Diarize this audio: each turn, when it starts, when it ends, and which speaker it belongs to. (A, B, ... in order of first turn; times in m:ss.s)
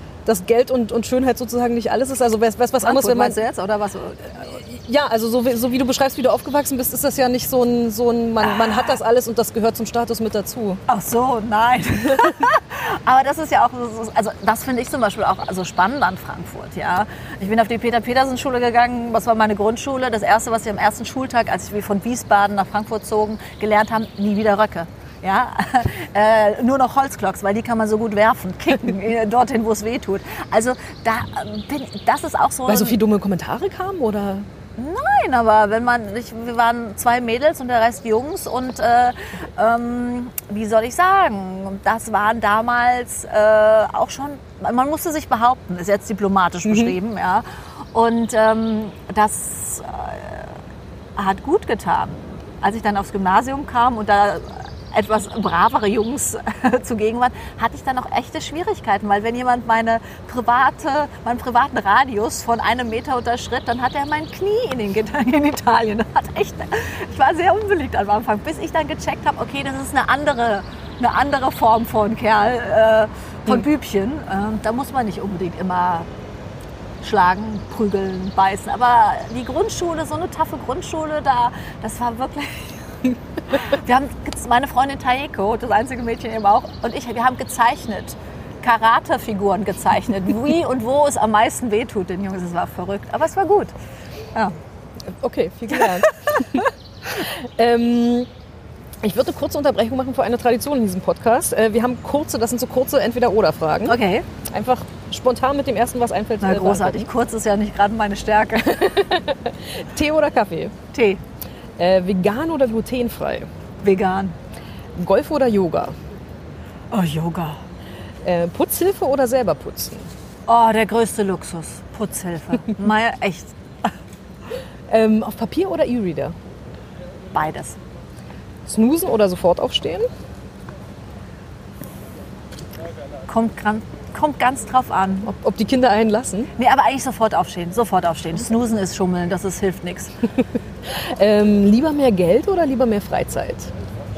0:00.2-0:03.4 A
0:02.8-0:04.6 B
0:04.5-0:10.8 A
0:08.4-0:08.8 B
0:10.9-0:33.0 B
0:32.7-0:34.5 A
0:34.8-0:50.5 B
0:46.6-0:46.9 A
0:51.2-1:16.1 B
1:17.0-1:23.0 B
1:23.5-1:33.7 B
1:35.1-1:38.3 A
1:35.7-1:36.6 B
1:39.0-1:47.1 A
1:43.8-1:44.2 B
1:46.4-1:49.0 B
1:48.7-1:50.7 A
1:50.9-1:51.2 B
1:51.8-1:53.5 A
1:53.8-1:54.3 B
1:55.0-1:55.9 A
1:56.9-1:57.6 B
1:58.2-2:00.1 A
2:00.5-2:03.9 B
2:04.9-2:06.4 A
2:07.3-2:07.8 B
2:08.6-2:10.1 A
2:13.3-2:15.3 B
2:15.2-2:16.5 A
2:16.6-2:20.2 B
2:20.8-2:23.7 A